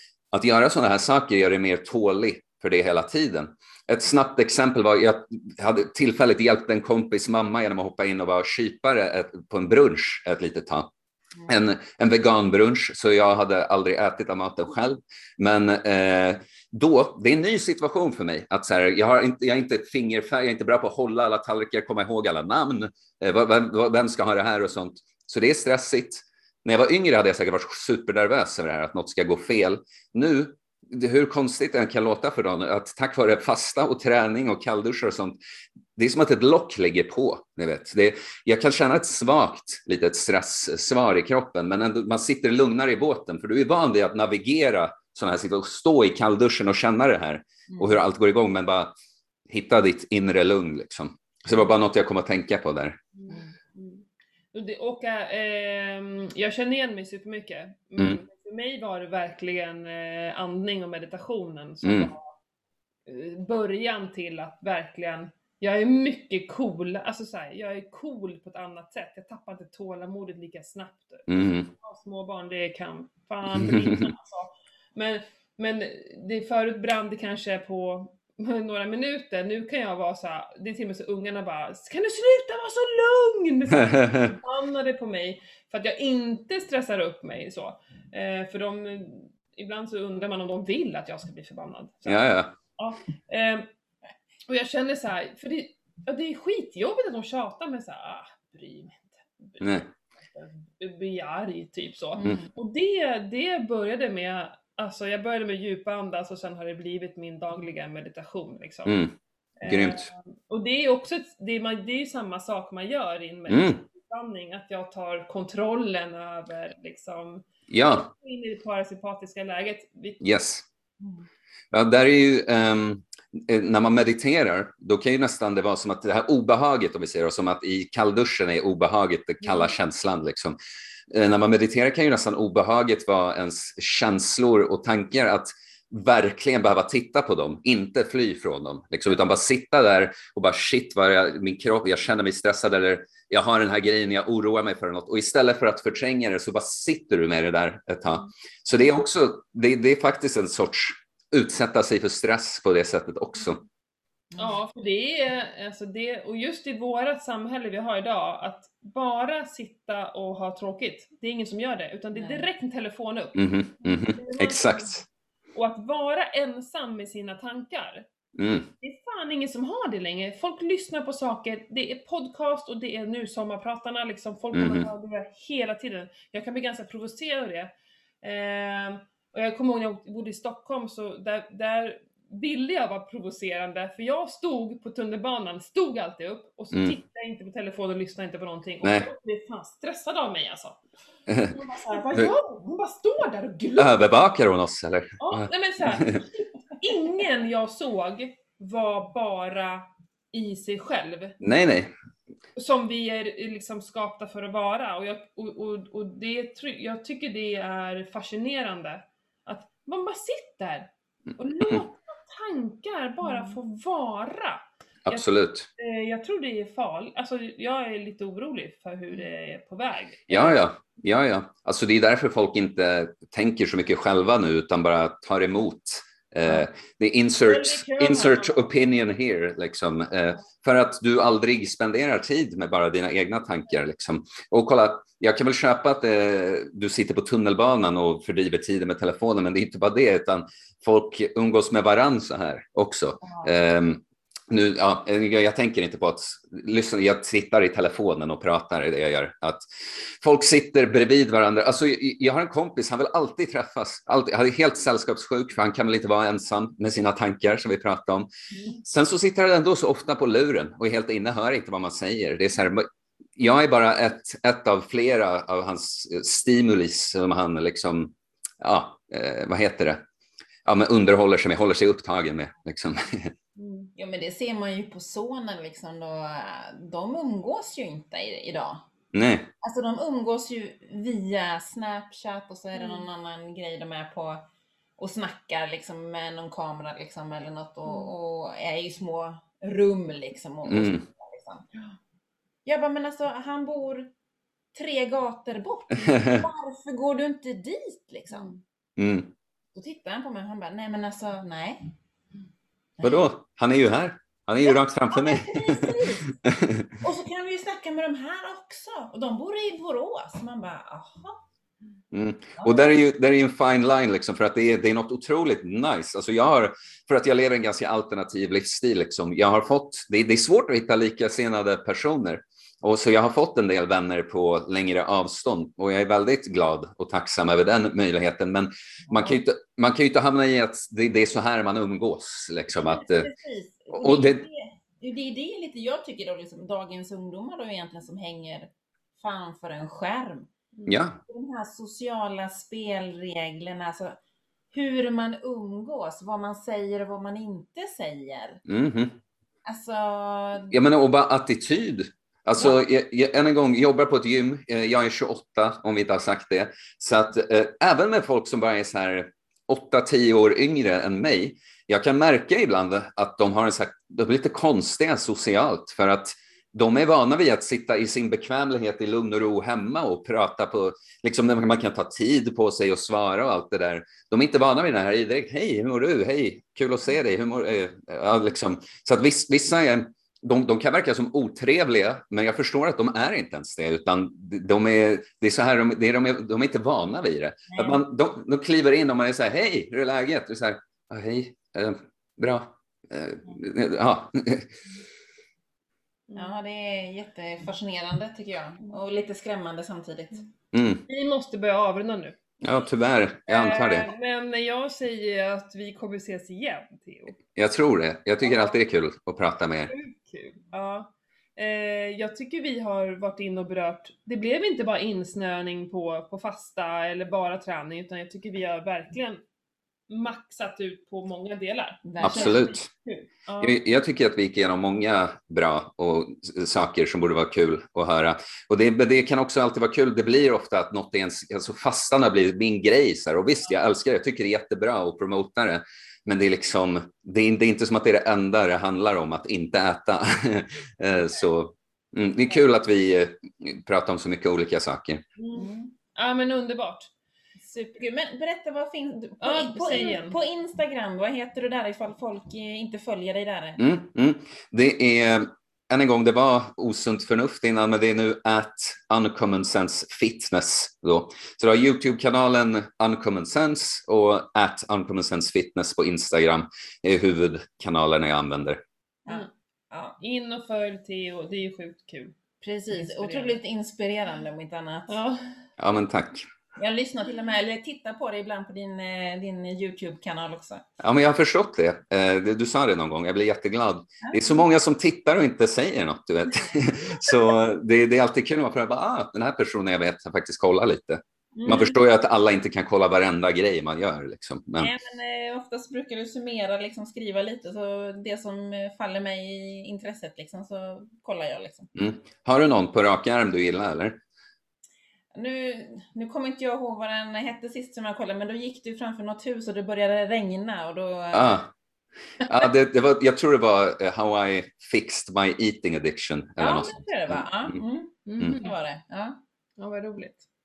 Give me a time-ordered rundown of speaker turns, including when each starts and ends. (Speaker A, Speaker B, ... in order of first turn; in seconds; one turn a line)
Speaker A: 0.3-10.9
Speaker A: 11.5-35.4
Speaker A: 36.0-48.9
Speaker B: 47.7-48.0
Speaker A: 49.5-53.0
Speaker C: 53.1-62.3
Speaker B: 53.3-53.5
Speaker A: 61.8-62.1
Speaker C: 63.1-93.7
Speaker A: 71.3-71.7
Speaker A: 73.5-74.1
Speaker A: 83.8-84.3
Speaker A: 92.1-92.5
Speaker C: 94.5-109.0
Speaker A: 99.6-99.9
Speaker B: 102.2-102.5
Speaker A: 108.8-109.1
Speaker C: 109.6-120.2
Speaker A: 109.7-110.1
Speaker A: 113.5-113.8
Speaker A: 117.7-118.1
Speaker A: 120.2-120.7
Speaker B: 121.0-121.3
Speaker A: 121.7-130.6
Speaker A: 131.1-153.6
Speaker B: 154.3-154.6
Speaker C: 154.4-163.4
Speaker B: 162.1-162.5
Speaker A: 163.3-165.0
Speaker C: 163.9-165.0
Speaker C: 165.5-168.1
Speaker A: 168.4-168.7
Speaker C: 168.8-190.8
Speaker A: 174.5-174.9
Speaker A: 188.8-189.1
Speaker A: 191.3-191.6
Speaker C: 191.4-194.0
Speaker A: 193.8-196.2
Speaker C: 195.2-201.4
Speaker A: 201.4-201.9
Speaker C: 202.6-220.6
Speaker B: 213.3-213.6
Speaker A: 215.1-215.7
Speaker A: 220.3-249.6
Speaker C: 227.4-228.7
Speaker A: 250.2-258.3
Speaker A: 258.8-262.9
Speaker A: 263.4-270.0
Speaker A: 270.6-273.3
Speaker C: 273.6-273.9
Speaker B: 274.0-278.9
Speaker A: 279.1-279.5
Speaker B: 279.6-284.5
Speaker C: 282.8-283.0
Speaker B: 285.0-291.7
Speaker A: 290.7-291.0
Speaker B: 292.6-294.1
Speaker B: 294.7-298.5
Speaker A: 296.1-296.4
Speaker C: 298.3-298.6
Speaker A: 299.0-299.3
Speaker B: 299.7-301.9
Speaker B: 303.0-303.2
Speaker A: 303.0-306.9
Speaker B: 304.6-306.4
Speaker B: 307.0-311.4
Speaker A: 312.1-333.3
Speaker B: 312.6-312.9
Speaker B: 332.7-340.5
Speaker A: 333.9-334.4
Speaker A: 340.9-341.2
Speaker B: 341.3-344.2
Speaker B: 344.7-348.6
Speaker A: 348.7-349.2
Speaker B: 349.6-350.8
Speaker A: 350.7-394.7
Speaker B: 387.7-388.0
Speaker C: 396.3-396.5
Speaker B: 396.3-400.5
Speaker A: 400.7-401.1
Speaker C: 401.1-402.4
Speaker A: 402.6-404.1
Speaker C: 403.5-407.4
Speaker A: 407.6-409.9
Speaker C: 408.4-408.8
Speaker C: 409.9-419.4
Speaker C: 420.1-423.8
Speaker B: 422.1-422.7
Speaker A: 422.2-422.9
Speaker A: 423.6-445.2
Speaker C: 445.4-447.1
Speaker B: 445.6-445.9
Speaker B: 447.6-453.8
Speaker C: 449.4-450.4
Speaker A: 453.8-468.8
Speaker B: 469.3-470.2
Speaker C: 470.2-473.6
Speaker B: 472.9-475.2
Speaker C: 475.1-475.7
Speaker A: 475.8-476.5
Speaker B: 476.8-480.9
Speaker A: 481.0-494.9
Speaker B: 484.2-484.7
Speaker B: 486.5-487.6
Speaker C: 491.6-491.9
Speaker B: 494.8-501.9
Speaker A: 501.9-504.2
Speaker B: 505.3-511.6
Speaker A: 511.3-511.7
Speaker A: 512.4-517.8
Speaker B: 516.6-519.4
Speaker C: 518.3-518.8
Speaker C: 519.8-520.5